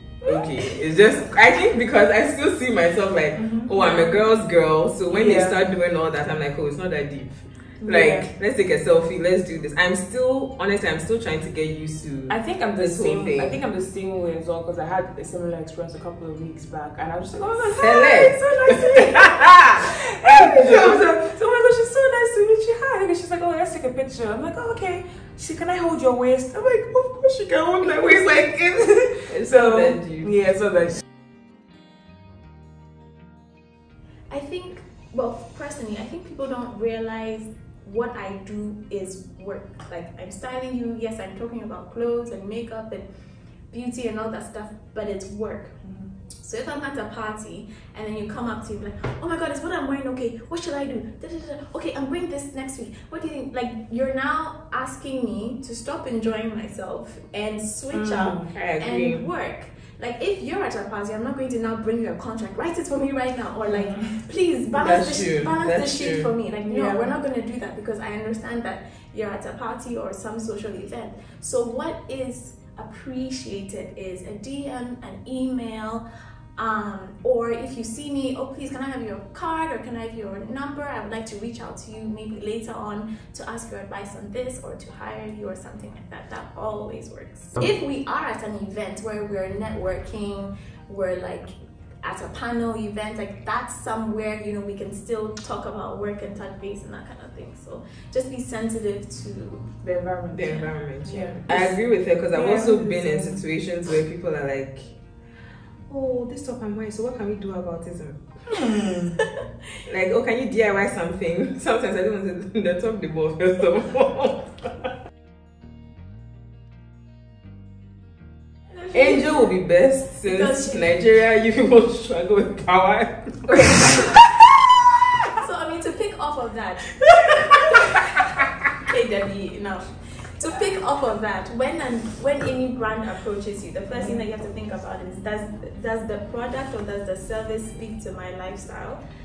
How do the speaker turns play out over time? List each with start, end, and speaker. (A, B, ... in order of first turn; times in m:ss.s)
0:00.2-0:13.6 A
0:03.4-0:03.7 B
0:03.8-0:04.2 C
0:05.1-0:05.6 B
0:07.8-0:08.3 B
0:12.3-0:31.0 B
0:17.6-0:21.0 A
0:29.3-0:30.4 A
0:34.3-0:43.0 C
0:43.7-0:45.8 C
0:45.8-0:46.1 B
0:46.4-1:16.0 C
0:57.9-0:58.5 B
0:58.5-0:59.3 A
1:03.7-1:04.1 B
1:04.7-1:06.3 A
1:06.6-1:07.1 B
1:16.6-1:39.8 C
1:39.8-1:41.7 B
1:40.3-1:45.0 A
1:42.3-1:43.4 B
1:45.9-1:48.2 A
1:48.5-1:49.2 B
1:49.9-1:54.9 A
1:58.8-1:59.2 C
1:58.9-2:04.3 A
2:00.3-2:00.9 C
2:05.4-2:08.1 C
2:07.0-2:07.6 A
2:08.8-2:19.0 C
2:13.9-2:14.2 B